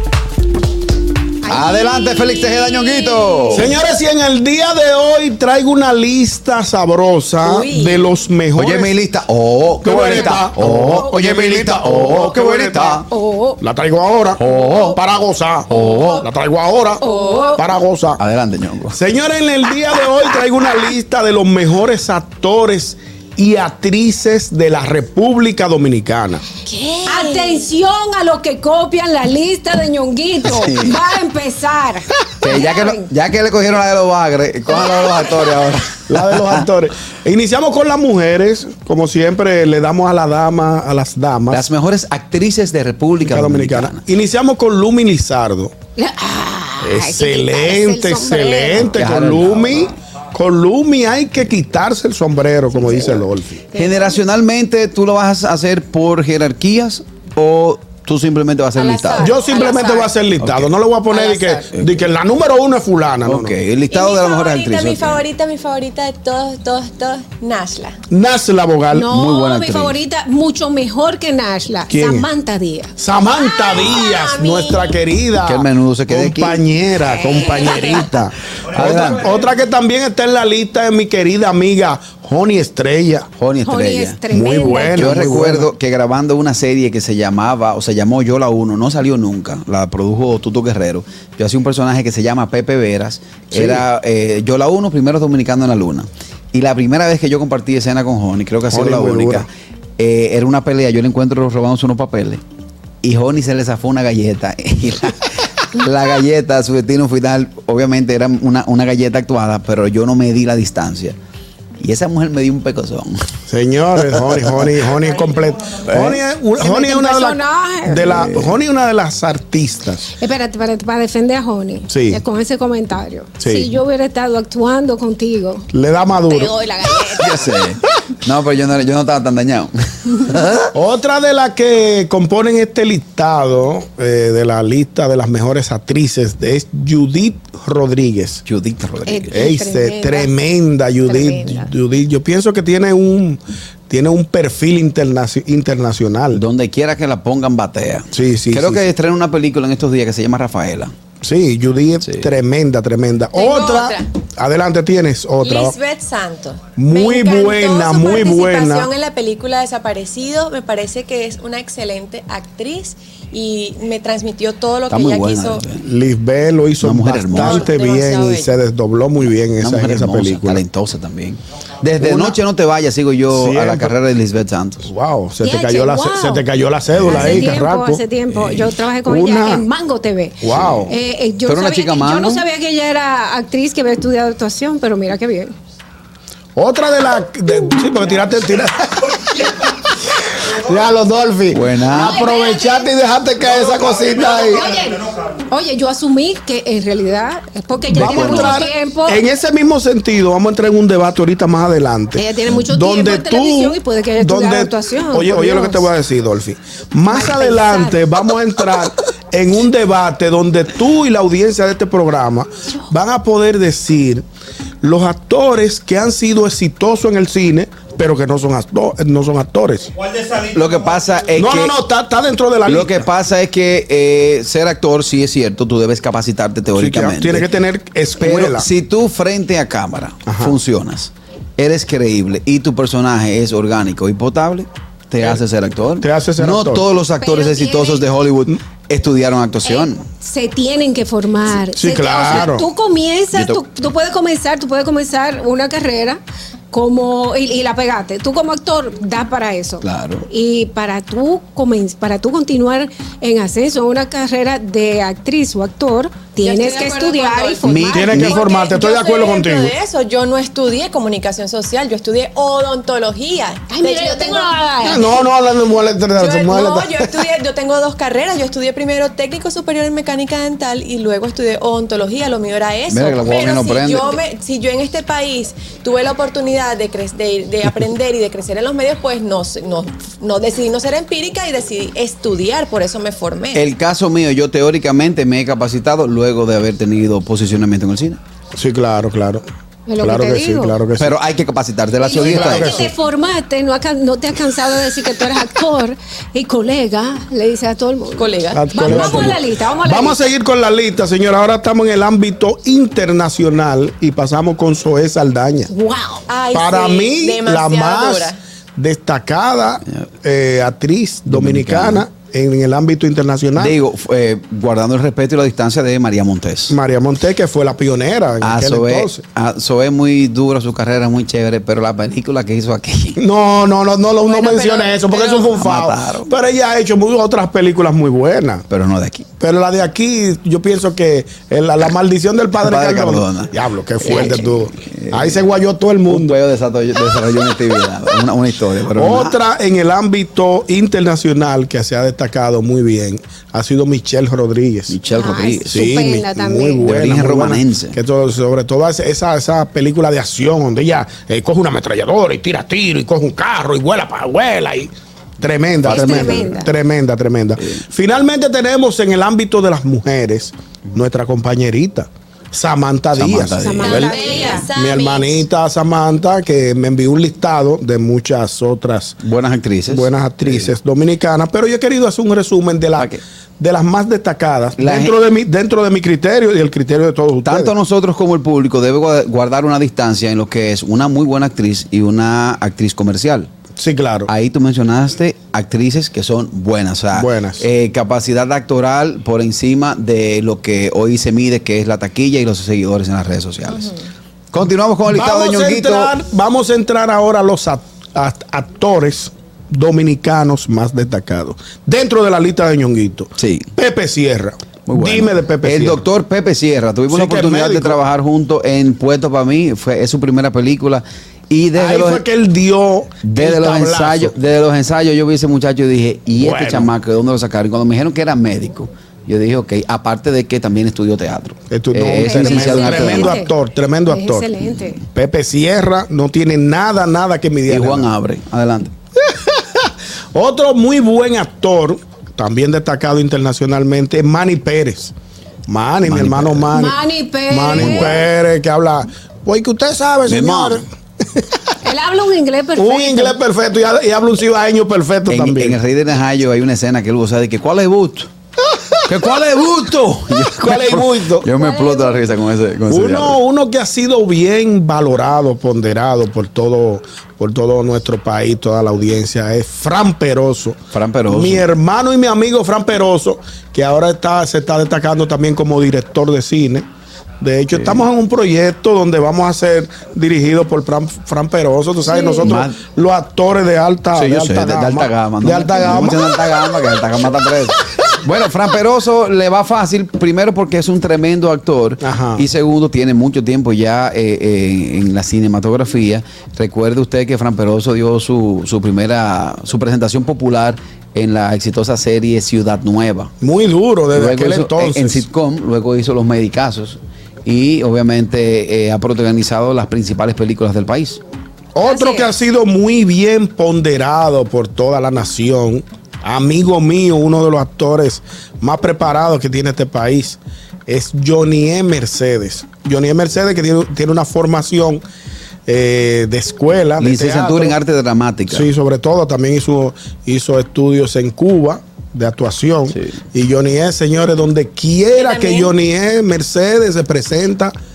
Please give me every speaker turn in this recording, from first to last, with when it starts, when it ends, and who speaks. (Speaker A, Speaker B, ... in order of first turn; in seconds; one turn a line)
Speaker A: 1.4-3.6
Speaker B: 1.5-3.7
Speaker C: 3.5-8.9
Speaker D: 7.4-8.1
Speaker B: 8.6-13.1
Speaker C: 9.8-13.0
Speaker A: 10.1-10.4
Speaker A: 13.1-13.6
Speaker C: 13.6-17.0
Speaker B: 14.4-15.0
Speaker D: 14.5-14.9
Speaker D: 15.7-16.2
Speaker B: 15.7-16.2
Speaker A: 17.0-17.6
Speaker D: 17.0-17.6
Speaker C: 17.5-18.2
Speaker B: 18.2-19.0
Speaker C: 18.9-26.4
Speaker D: 26.6-27.7
Speaker A: 27.1-33.1
Speaker B: 30.4-31.0
Speaker B: 32.4-36.6
Speaker A: 34.8-35.3
Speaker C: 36.1-41.7
Speaker B: 41.5-44.0
Speaker C: 43.2-45.7
Speaker A: 46.0-49.0
Speaker C: 46.8-53.7
Speaker B: 48.9-49.9
Speaker B: 53.7-59.3
Speaker A: 53.8-54.1
Speaker A: 58.8-59.8
Speaker D: 59.0-60.1
Speaker C: 59.2-63.5
Speaker B: 60.4-60.7
Speaker D: 61.1-61.6
Speaker B: 61.7-62.1
Speaker B: 63.2-65.2
Speaker D: 63.9-68.0
Speaker C: 68.1-69.1
Speaker A: 68.9-72.9
Speaker B: 69.1-70.0
Speaker C: 71.9-72.3
Speaker C: 73.0-83.3
Speaker D: 73.3-74.9
Speaker B: 75.4-76.6
Speaker A: 77.1-78.1
Speaker B: 78.7-79.3
Speaker B: 83.4-84.2
Speaker A: 83.6-85.1
Speaker C: 84.3-85.7
Speaker B: 84.9-102.4
Speaker C: 93.5-93.8
Speaker C: 98.7-99.5
Speaker B: 103.0-111.2
Speaker B: 111.8-113.2
Speaker C: 113.5-120.1
Speaker B: 114.0-114.5
Speaker B: 115.9-116.2
Speaker A: 116.6-118.2
Speaker B: 118.1-118.5
Speaker A: 120.2-125.7
Speaker C: 121.9-122.2
Speaker C: 123.4-123.7
Speaker C: 125.7-127.2
Speaker A: 126.3-127.2
Speaker B: 127.2-130.7
Speaker C: 130.7-138.4
Speaker B: 138.4-139.5
Speaker A: 139.1-140.3
Speaker C: 139.3-146.4
Speaker A: 141.0-141.7
Speaker B: 146.3-150.9
Speaker C: 148.1-148.8
Speaker C: 151.2-155.8
Speaker D: 153.3-154.1
Speaker D: 155.4-165.6
Speaker C: 156.8-158.9
Speaker B: 164.9-165.8
Speaker C: 165.8-170.6
Speaker B: 166.8-167.7
Speaker D: 167.3-168.5
Speaker B: 169.6-174.9
Speaker C: 172.0-172.4
Speaker C: 173.3-173.9
Speaker C: 174.8-178.0
Speaker A: 175.4-176.4
Speaker B: 177.0-177.4
Speaker A: 177.1-185.5
Speaker B: 178.3-178.7
Speaker C: 179.0-179.7
Speaker C: 180.4-180.9
Speaker B: 180.5-180.9
Speaker B: 181.5-182.4
Speaker C: 186.6-189.7
Speaker C: 190.5-194.7
Speaker B: 191.5-192.2
Speaker A: 191.9-192.9
Speaker A: 194.1-199.2
Speaker C: 197.9-214.2
Speaker B: 197.9-198.7
Speaker A: 202.2-205.9
Speaker A: 207.1-208.0
Speaker C: 214.8-219.9
Speaker B: 220.3-221.7
Speaker C: 221.3-223.1
Speaker B: 222.7-227.5
Speaker C: 226.7-228.7
Speaker B: 228.2-240.0
Speaker C: 230.2-230.6
Speaker C: 236.0-236.8
Speaker A: 237.2-238.0
Speaker A: 239.6-246.2
Speaker C: 241.7-242.7
Speaker B: 243.3-243.6
Speaker A: 246.7-258.2
Speaker B: 249.8-250.2
Speaker D: 256.4-264.5
Speaker B: 257.6-258.4
Speaker C: 257.9-259.7
Speaker A: 263.7-265.2
Speaker C: 264.8-267.2
Speaker D: 266.2-283.6
Speaker B: 272.9-274.2
Speaker B: 283.5-288.2
Speaker C: 288.5-289.4
Speaker A: 289.9-290.8
Speaker C: 290.0-291.1
Speaker B: 291.0-292.8
Speaker A: 292.0-300.2
Speaker C: 292.1-292.9
Speaker D: 298.2-299.3
Speaker C: 298.5-305.7
Speaker A: 305.7-306.2
Speaker D: 306.3-308.4
Speaker C: 306.5-313.8
Speaker B: 311.3-312.0
Speaker B: 313.6-316.7
Speaker C: 316.7-319.2
Speaker B: 318.4-323.2
Speaker C: 323.2-328.6
Speaker D: 324.2-325.6
Speaker B: 325.6-326.3
Speaker B: 328.7-329.3
Speaker C: 329.4-336.4
Speaker B: 332.6-335.4
Speaker B: 336.1-339.4
Speaker C: 338.9-345.0
Speaker B: 344.9-345.8
Speaker A: 345.1-346.9
Speaker C: 345.7-369.2
Speaker B: 346.8-347.9
Speaker B: 355.9-356.5
Speaker A: 355.9-356.7
Speaker B: 363.1-364.1
Speaker A: 363.6-364.7
Speaker D: 363.8-365.4
Speaker B: 369.2-370.7
Speaker C: 369.9-377.7
Speaker B: 374.8-375.1
Speaker B: 377.4-383.5
Speaker C: 383.8-384.3
Speaker B: 384.3-393.9
Speaker C: 387.1-387.6
Speaker B: 394.5-396.1
Speaker C: 395.1-406.0
Speaker B: 403.4-403.7
Speaker B: 404.9-412.2
Speaker C: 407.1-408.0
Speaker C: 411.7-414.3
Speaker B: 413.2-423.4
Speaker C: 416.4-416.9
Speaker C: 421.7-424.5
Speaker A: 422.2-423.5
Speaker A: 424.1-425.0
Speaker C: 425.1-428.1
Speaker B: 427.7-428.9
Speaker C: 429.2-435.1
Speaker C: 435.7-441.6
Speaker B: 436.1-436.7
Speaker A: 436.7-438.1
Speaker B: 437.8-438.1
Speaker B: 440.3-440.8
Speaker A: 441.8-443.4
Speaker C: 442.8-445.8
Speaker B: 445.3-448.3
Speaker B: 449.0-453.4
Speaker C: 450.6-451.5
Speaker A: 451.6-452.1
Speaker C: 452.9-466.9
Speaker B: 460.9-461.7
Speaker C: 467.4-476.8
Speaker B: 467.7-468.1
Speaker B: 472.4-472.8
Speaker B: 474.1-493.3
Speaker C: 482.0-482.5
Speaker C: 493.4-495.2
Speaker B: 494.1-501.2
Speaker C: 501.7-515.0
Speaker A: 501.8-502.3
Speaker C: 515.7-517.8
Speaker B: 517.0-518.7
Speaker C: 518.5-527.7
Speaker D: 525.1-525.7